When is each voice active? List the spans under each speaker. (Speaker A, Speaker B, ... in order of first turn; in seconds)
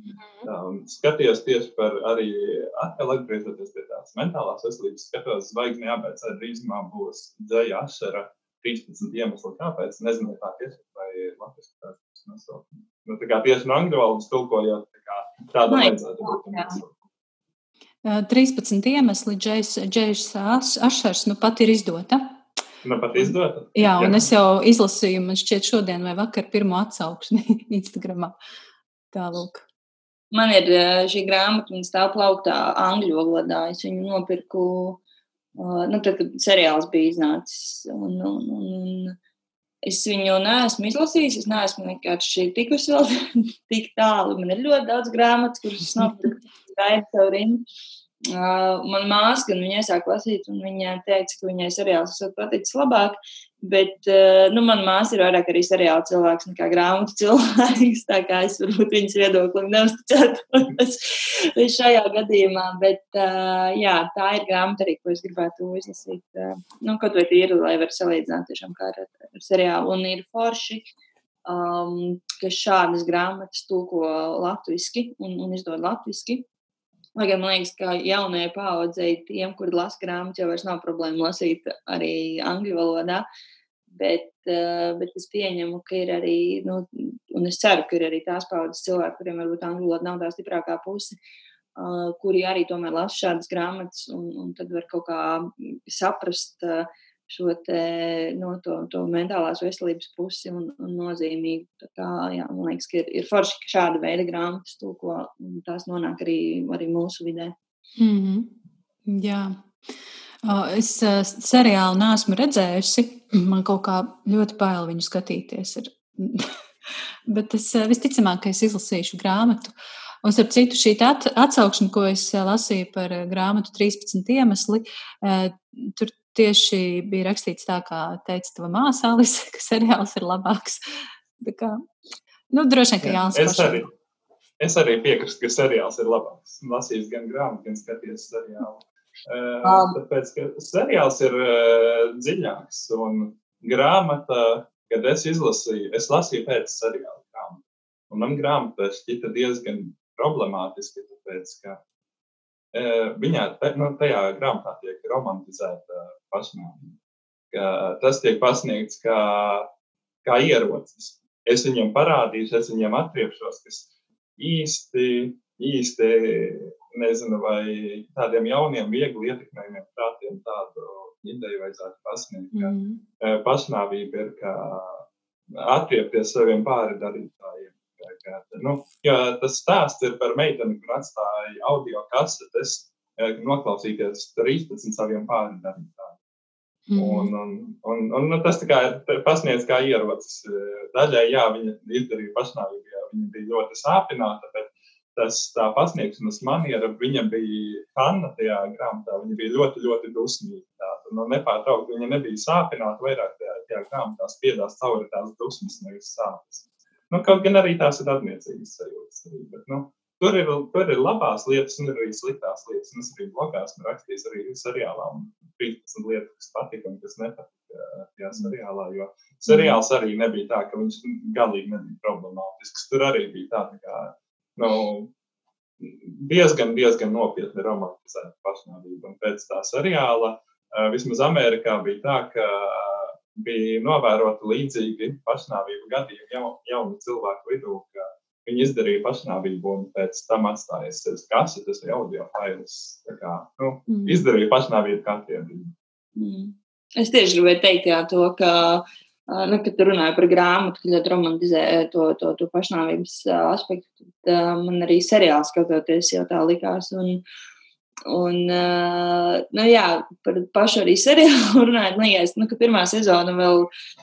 Speaker A: 0.4-17.0, 22.8-24.2, 133.0-133.9, 134.6-151.8, 152.7-157.0, 157.5-159.7, 160.2-186.2, 186.9-225.1, 225.8-245.7
Speaker B: 15.7-16.8, 30.3-35.0, 35.5-39.2, 39.8-47.6, 48.2-70.8, 71.4-76.4, 77.2-83.2, 83.9-91.2, 91.8-107.5, 139.6-140.0, 246.2-257.2, 258.1-263.7
Speaker C: 18.0-22.4, 23.2-28.3, 29.1-29.6, 108.0-108.5, 109.1-109.6, 110.4-116.5, 117.3-119.7, 120.2-130.8, 131.4-131.8, 132.5-133.9, 172.5-173.0, 186.9-187.3, 219.5-219.8, 243.9-244.2